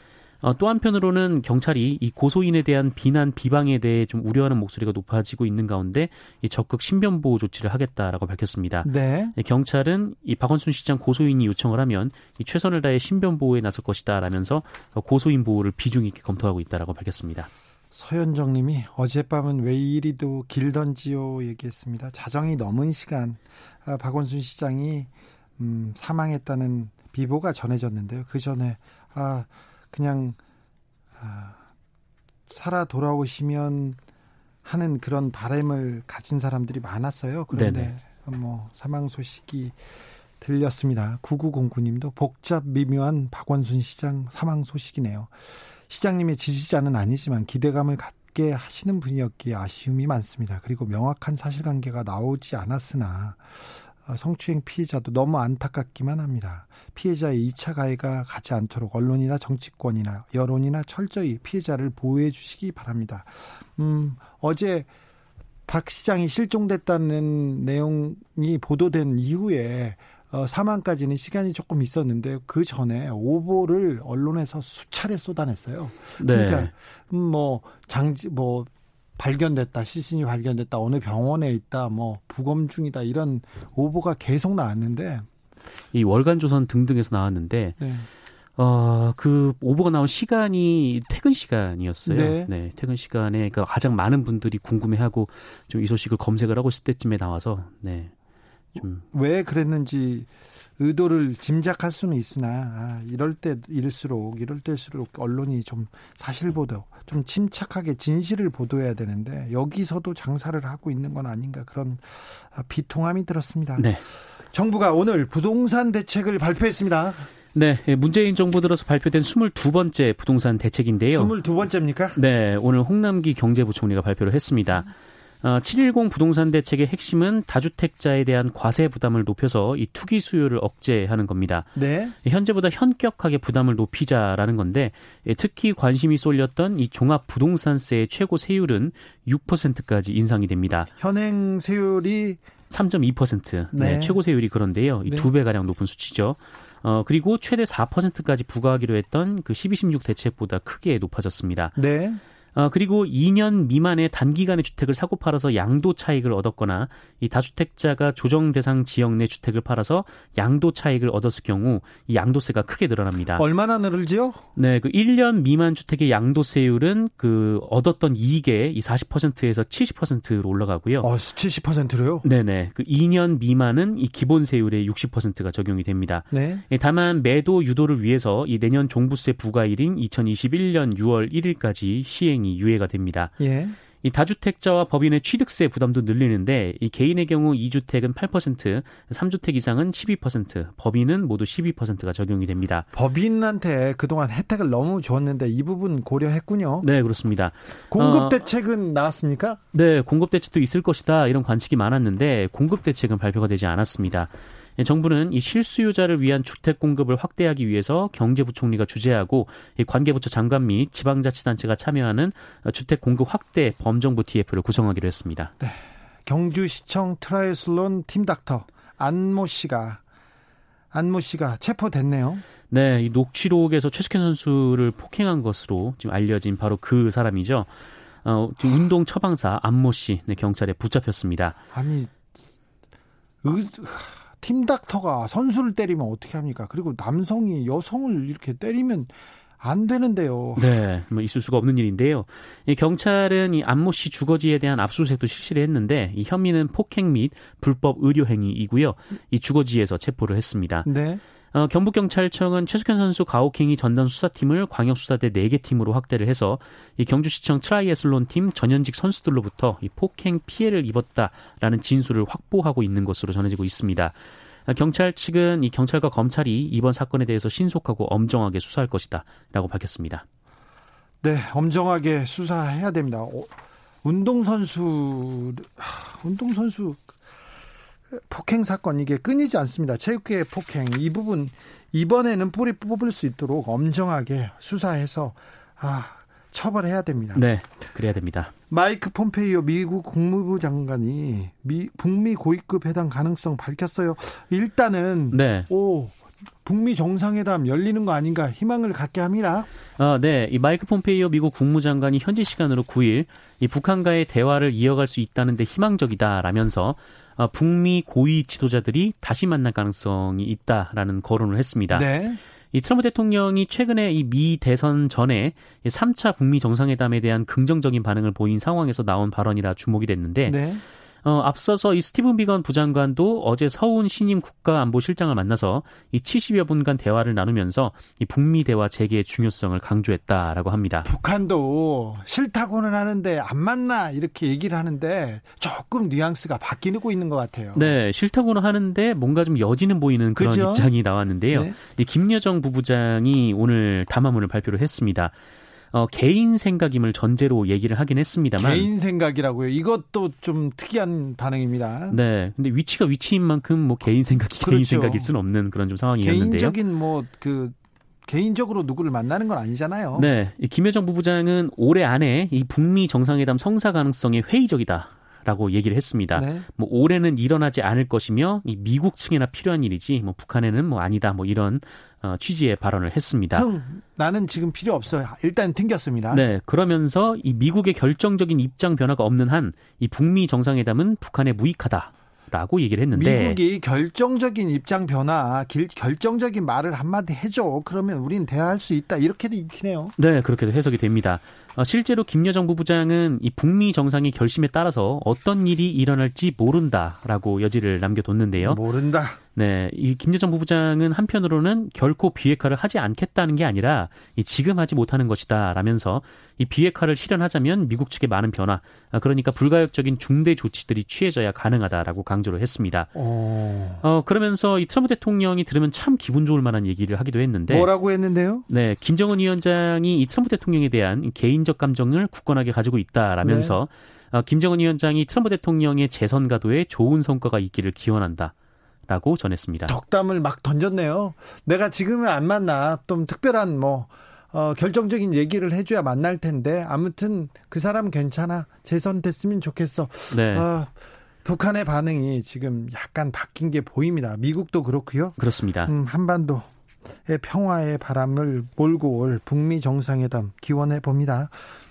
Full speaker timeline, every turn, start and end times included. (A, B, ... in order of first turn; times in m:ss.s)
0:00.4-0:17.5 A
0:08.8-0:09.4 B
0:17.9-0:30.4 B
0:31.2-0:31.6 B
0:32.5-0:34.0 B
0:34.6-0:39.8 B
0:37.5-0:38.0 A
0:40.4-0:45.3 B
0:45.9-0:53.4 B
0:54.0-1:04.9 B
1:05.7-1:25.3 B
1:16.2-1:16.7 A
1:25.9-1:27.8 A
1:27.8-1:28.1 B
1:28.6-1:38.1 A
1:32.0-1:32.5 B
1:38.8-1:39.0 A
1:38.8-1:53.9 B
1:53.8-1:54.0 A
1:54.5-1:57.3 B
1:57.5-2:01.3 A
2:01.1-2:02.2 B
2:02.1-2:04.9 A
2:05.4-2:11.7 A
2:11.8-2:12.2 B
2:12.2-2:20.9 A
2:21.0-2:22.4 B
2:22.7-2:31.8 A
2:23.7-2:24.2 B
2:31.8-2:32.2 B
2:32.5-2:43.4 A
2:43.4-2:44.4 B
2:44.6-2:51.1 A
2:51.0-2:52.2 B
2:52.2-3:03.3 A
2:56.3-2:56.6 B
3:03.4-3:03.8 B
3:04.0-3:12.9 A
3:12.9-3:16.9 B
3:16.8-3:18.4 A
3:17.9-3:19.6 B
3:19.7-3:35.5 A
3:35.6-3:40.0 B
3:40.9-3:42.4 B
3:42.7-3:47.7 A
3:48.2-3:51.6 A
3:51.7-3:52.2 B
3:53.4-4:00.8 B
4:00.6-4:10.9 A
4:10.8-4:11.2 B
4:11.5-4:30.2 A
4:31.2-4:33.5 B
4:34.0-4:37.1 B
4:38.1-4:47.4 B
4:47.3-4:48.5 A
4:48.7-4:59.7 B
4:55.3-4:55.7 A
5:00.0-5:12.1 A
5:11.9-5:12.4 B
5:12.7-5:20.6 A
5:20.4-5:20.8 B
5:21.2-5:31.1 A
5:31.0-5:37.9 B
5:37.7-5:45.3 A
5:40.4-5:40.9 B
5:41.5-5:41.8 B
5:45.9-5:48.9 A
5:48.6-5:52.2 B
5:52.1-5:56.8 A
5:54.6-5:55.3 B
5:56.2-6:00.3 B
6:00.1-6:13.7 A
6:06.3-6:06.7 B
6:13.5-6:16.4 B
6:16.3-6:23.6 A
6:23.1-6:30.1 B
6:30.2-6:38.8 A
6:38.6-6:39.4 B
6:39.5-6:53.1 A
6:53.1-6:54.0 B
6:54.0-6:57.9 A
6:57.7-6:58.6 B
6:58.7-7:08.5 A
7:03.4-7:03.8 B
7:09.1-7:09.9 A
7:09.9-7:31.7 B
7:20.3-7:20.7 A
7:25.4-7:25.9 A